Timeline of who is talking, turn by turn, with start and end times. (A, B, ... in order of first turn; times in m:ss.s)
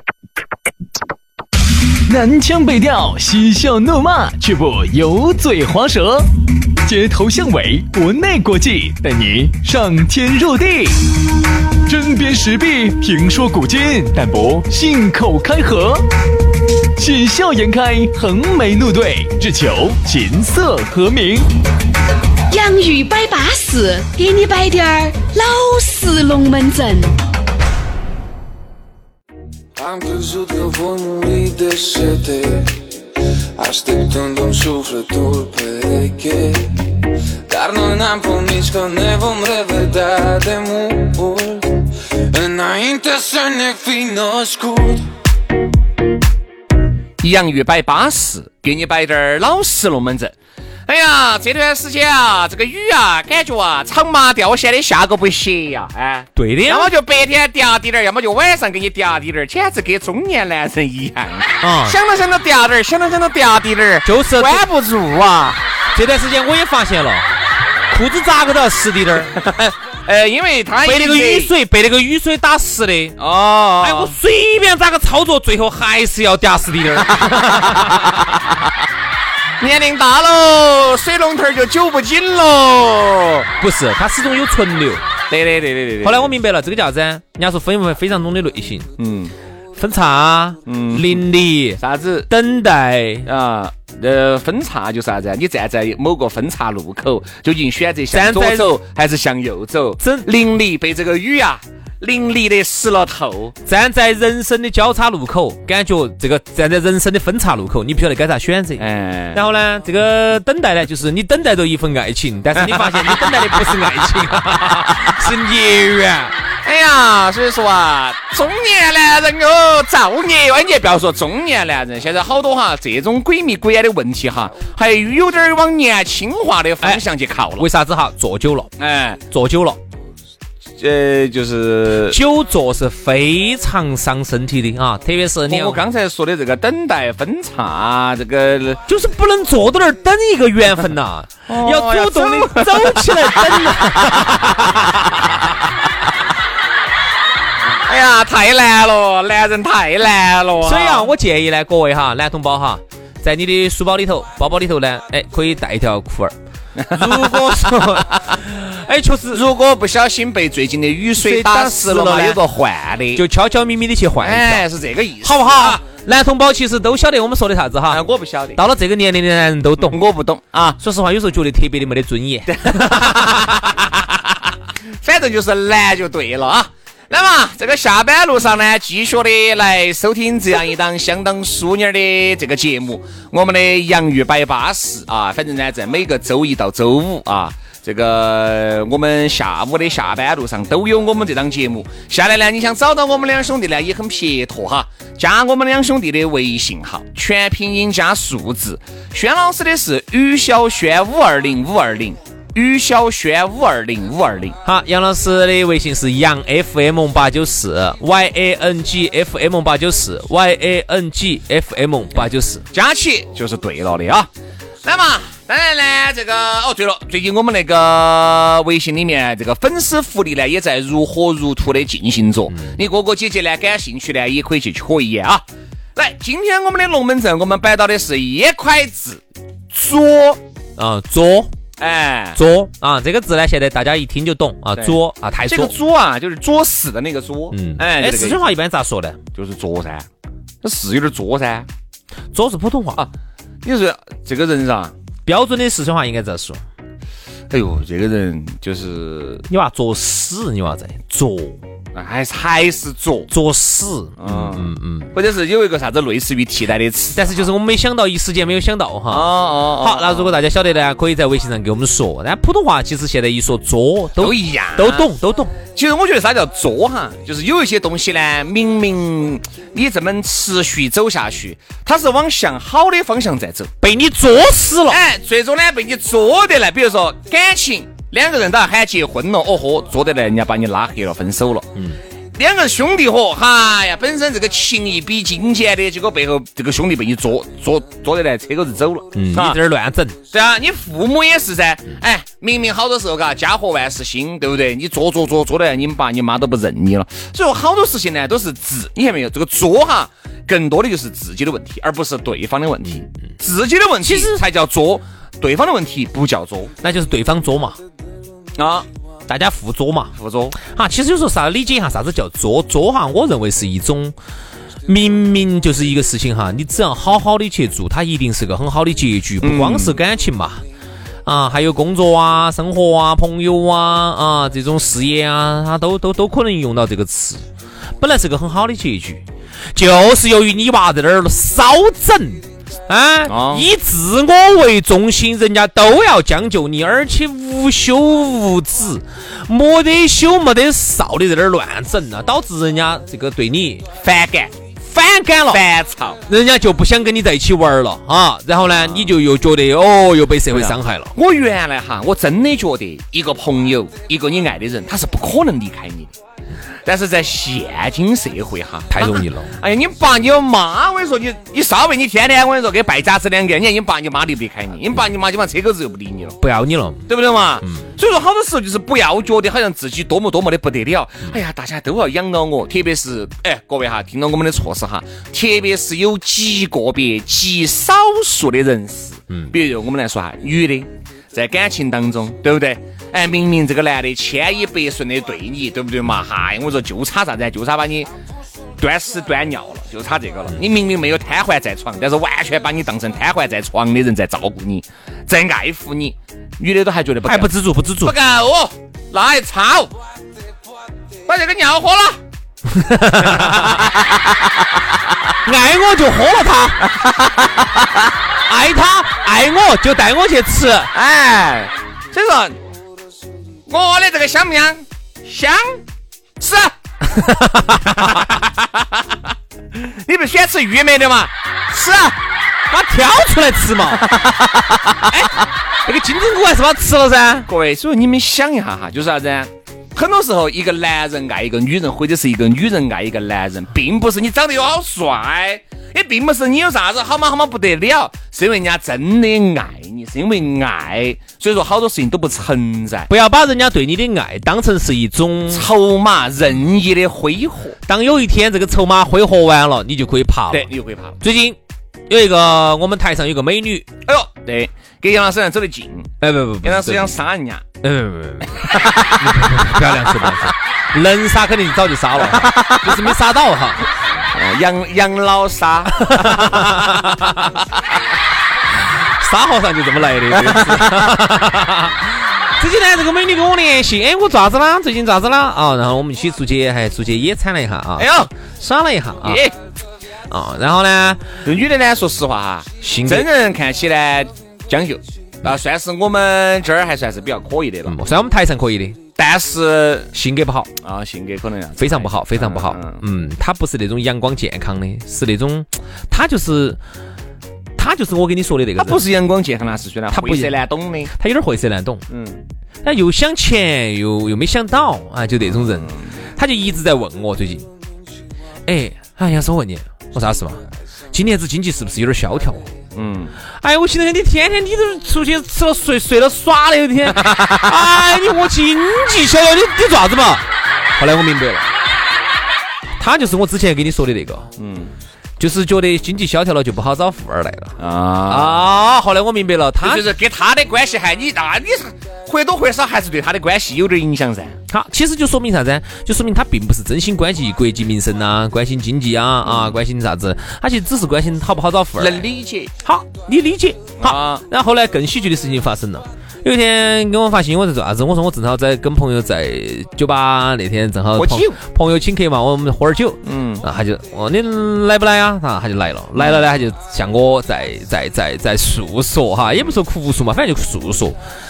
0:02.1-0:06.3 A
0:06.8-0:11.0 A
0:11.9-0:16.0 A
0:17.0-0:21.5 A
0:22.5-0:27.1 B
0:29.8-0:32.6 C
0:33.6-0:36.6 C
0:37.5-0:45.0 C
0:47.2-0:50.3 D
0:50.9-1:05.6 D
0:56.4-0:56.9 E
1:01.6-1:02.0 E
1:04.0-1:04.6 E
1:05.9-1:07.3 E
1:07.9-1:09.3 E
1:09.3-1:11.5 D
1:10.8-1:13.2 E
1:13.2-1:14.2 D
1:13.8-1:18.1 E
1:17.0-1:18.4 D
1:19.6-1:23.5 D
1:23.6-1:25.0 E
1:25.3-1:26.3 D
1:26.0-1:28.9 E
1:29.0-1:29.3 D
1:29.8-1:33.3 E
1:30.7-1:31.2 D
1:31.8-1:32.3 D
1:33.2-1:43.5 D
1:38.1-1:38.8 E
1:40.0-1:40.3 E
1:43.6-1:56.3 E
1:48.8-1:49.4 D
1:52.6-1:53.8 D
1:56.6-2:07.7 D
2:07.6-2:08.7 E
2:08.8-2:09.2 D
2:09.3-2:09.8 E
2:10.8-2:12.2 D
2:12.1-2:15.8 E
2:15.5-2:18.8 D
2:18.9-2:24.9 E
2:21.5-2:25.4 D
2:27.9-2:31.1 D
2:30.6-2:36.3 E
2:36.8-2:38.4 D
2:36.9-2:39.4 E
2:39.3-2:43.2 D
2:41.2-2:42.4 E
2:43.1-2:44.6 E
2:44.2-2:45.8 D
2:45.2-2:48.0 E
2:47.9-2:48.6 D
2:48.6-2:50.0 E
2:49.8-2:50.8 D
2:50.8-2:53.5 E
2:52.5-2:54.4 D
2:55.0-3:24.6 D
3:24.6-3:32.6 E
3:32.2-3:34.3 D
3:34.8-3:45.4 D
3:42.5-3:42.7 E
3:46.0-3:50.4 D
3:50.8-3:51.5 E
3:51.8-3:52.4 D
3:52.4-3:55.7 E
3:54.8-3:58.4 D
3:57.5-3:59.2 E
3:59.3-4:00.1 D
4:00.6-4:01.7 D
4:02.3-4:03.0 E
4:03.6-4:04.9 D
4:05.2-4:06.6 E
4:07.5-4:09.4 D
4:09.5-4:11.6 E
4:11.9-4:13.3 D
4:13.3-4:15.1 E
4:14.2-4:17.4 D
4:17.1-4:25.6 E
4:19.1-4:20.4 D
4:24.2-4:25.1 D
4:25.7-4:33.7 D
4:33.8-4:35.0 E
4:34.9-4:41.7 D
4:42.4-4:49.6 D
4:49.1-4:50.2 E
4:50.3-5:06.7 D
5:04.0-5:04.4 E
5:06.8-5:07.8 E
5:08.6-5:08.9 D
5:09.3-5:14.1 E
5:10.2-5:10.6 D
5:14.9-5:20.6 E
5:19.4-5:20.0 D
5:21.2-5:27.4 E
5:28.0-5:43.8 E
5:33.3-5:33.7 D
5:44.0-5:44.6 D
5:44.8-5:45.6 E
5:45.5-5:46.2 D
5:46.3-5:51.1 E
5:48.6-5:49.1 D
5:50.5-5:56.1 D
5:56.8-6:06.4 D
5:58.9-5:59.5 E
6:06.4-6:07.1 E
6:07.1-6:28.1 D
6:28.8-6:37.5 D
6:37.2-6:38.1 E
6:38.0-6:39.9 D
6:41.3-6:42.2 D
6:42.7-6:43.7 E
6:43.2-6:44.4 D
6:45.4-6:46.8 E
6:46.8-6:48.1 D
6:48.5-6:50.9 E
6:50.9-6:52.6 D
6:53.7-6:55.8 D
6:56.4-6:56.7 D
6:57.0-6:58.3 E
6:58.0-6:59.0 D
6:59.7-7:02.2 D
7:02.7-7:04.2 E
7:04.0-7:05.0 D
7:05.8-7:07.5 E
7:07.5-7:23.1 D
7:23.1-7:25.6 E
7:25.5-7:27.8 D
7:27.9-7:30.7 E
7:30.5-7:31.2 D
7:31.2-7:31.6 E
7:32.1-7:33.9 E
7:34.0-7:37.6 D
7:36.2-7:37.1 E
7:37.8-7:43.8 E
7:38.7-7:39.1 D
7:42.2-7:43.1 D
7:44.3-7:46.8 D
7:45.9-7:47.6 E
7:48.7-7:59.4 E
7:50.3-7:51.1 D
7:58.0-7:58.3 D
7:59.2-7:59.6 D
8:00.3-8:01.3 E
8:01.4-8:07.9 D
8:02.8-8:03.3 E
8:07.9-8:09.0 E
8:09.2-8:10.1 D
8:10.1-8:10.7 E
8:10.8-8:13.0 D
8:11.8-8:16.8 E
8:17.8-8:19.0 E
8:18.8-8:21.1 D
8:20.1-8:20.6 E
8:21.1-8:22.0 E
8:22.1-8:22.4 D
8:22.8-8:27.7 E
8:25.6-8:26.0 D
8:28.6-8:32.7 E
8:32.9-8:33.3 D
8:33.6-8:41.7 E
8:37.2-8:37.7 D
8:43.0-8:44.5 E
8:44.6-8:44.9 D
8:45.4-8:47.7 E
8:47.8-8:48.6 D
8:48.3-8:50.1 E
8:49.8-8:54.6 D
8:54.7-9:02.2 E
8:59.4-8:59.8 D
9:02.0-9:02.7 D
9:02.8-9:21.2 E
9:04.0-9:04.4 D
9:11.2-9:11.6 D
9:13.2-9:13.6 D
9:16.2-9:16.5 D